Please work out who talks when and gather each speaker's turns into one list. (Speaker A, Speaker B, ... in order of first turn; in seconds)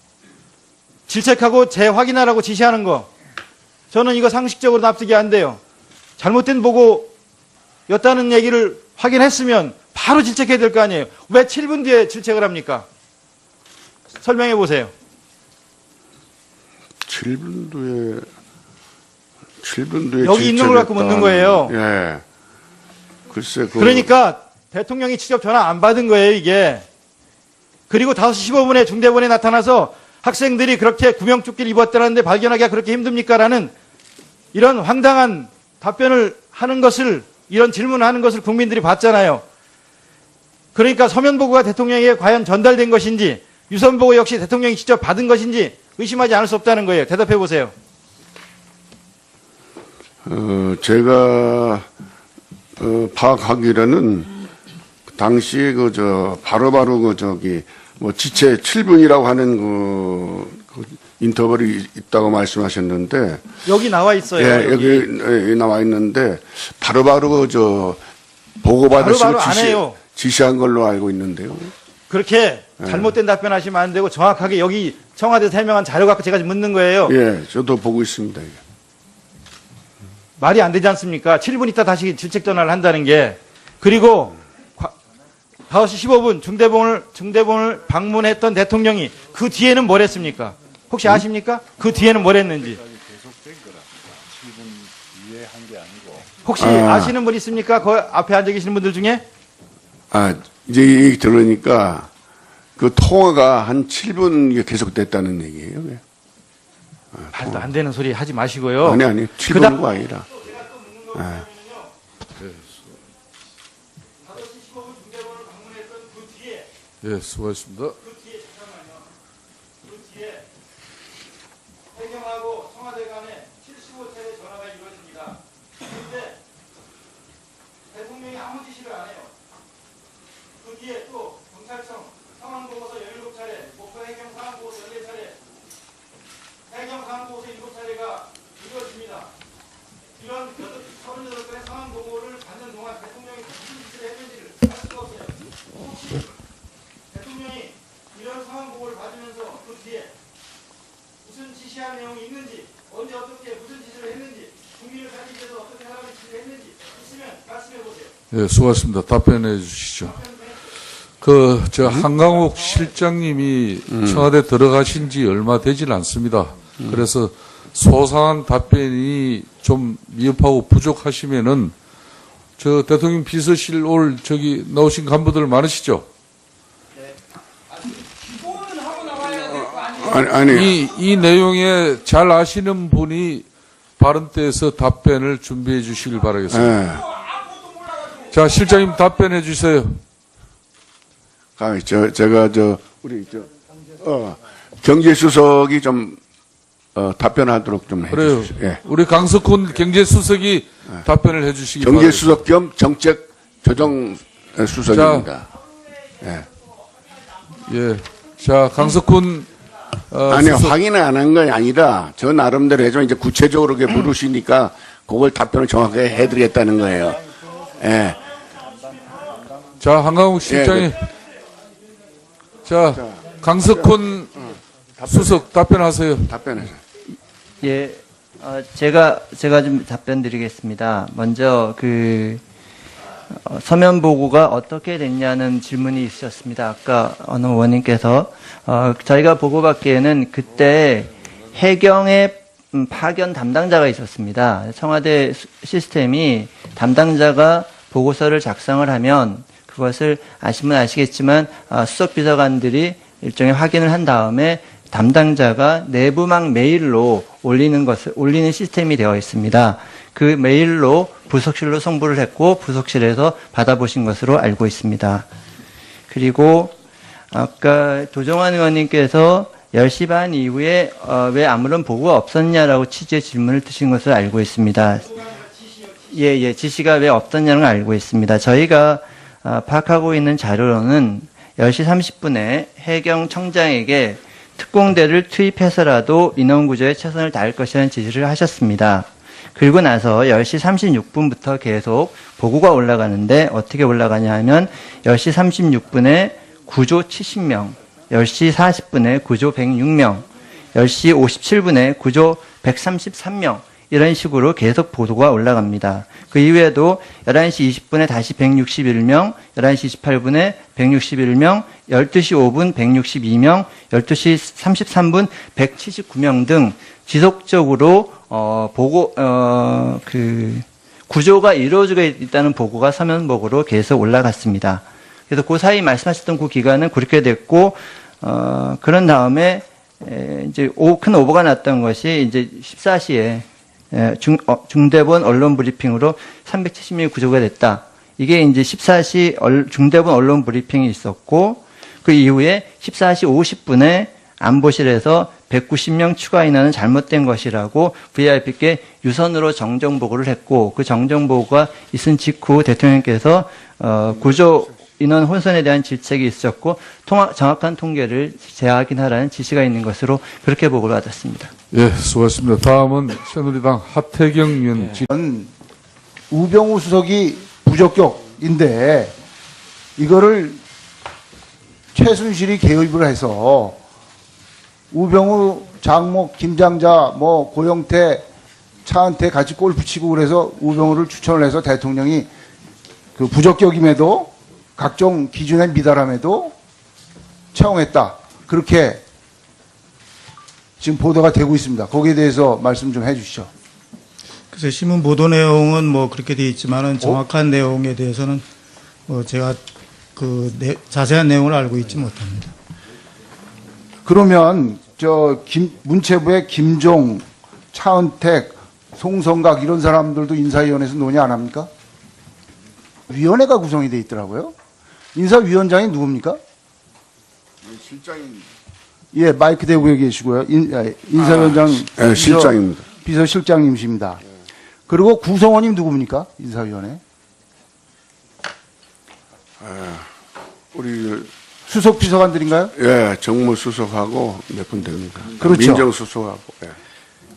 Speaker A: 1.1-3.1, 3.9-5.6, 6.2-7.1, 7.9-12.8, 14.2-14.9, 20.2-21.7, 23.8-26.8, 27.9-33.7, 34.5-39.4, 40.7-47.7, 63.6-65.1, 69.0-70.0, 72.1-77.1, 80.4-84.9, 85.7-92.8, 96.4-99.2, 107.3-111.9, 114.2-116.7, 118.0-119.1, 119.8-120.5, 121.9-126.4, 127.9-129.3, 130.6-135.4, 136.7-139.3, 140.2-146.3, 147.1-150.1, 151.2-158.1, 160.2-160.4, 275.1-276.1
Speaker B: 17.0-18.3, 19.6-22.2, 23.3-24.1, 50.2-51.9, 52.8-54.4, 55.1-63.5, 64.3-68.0, 68.6-71.7, 72.8-73.1, 77.0-78.6, 96.6-97.1, 100.1-102.1, 102.8-106.0, 107.1-107.6, 108.8-110.2, 111.2-111.4, 161.8-162.1, 163.9-164.3, 179.2-180.8, 186.5-187.1, 191.6-196.2, 196.9-198.8, 201.8-205.5, 206.2-206.5, 210.3-218.3, 220.4-220.9, 222.9-223.9, 224.5-225.4, 226.3-226.8, 417.6-418.5, 421.1-422.8, 429.6-430.1, 430.7-431.3, 432.7-436.8
Speaker C: 112.4-112.8, 117.0-118.0, 158.3-160.2, 161.2-171.7, 172.6-176.1, 180.4-183.4, 184.0-186.8, 188.2-190.0, 198.1-202.3, 204.9-205.3, 207.6-209.5, 210.1-210.7, 219.8-221.0, 222.7-224.3, 225.1-226.3, 361.7-365.1
Speaker D: 227.6-232.4, 233.3-265.3, 266.1-266.8, 267.3-275.1, 276.1-361.5
Speaker E: 365.1-365.5, 366.3-369.1, 370.0-370.6, 371.9-373.8, 374.9-378.2, 378.9-382.3, 383.1-386.5, 387.5-389.0, 390.8-393.5, 404.0-411.7, 413.1-414.5, 415.1-416.4, 419.1-424.2, 424.9-427.0, 431.7-432.7, 435.4-435.9
Speaker F: 394.5-398.4, 399.1-399.6, 400.1-402.5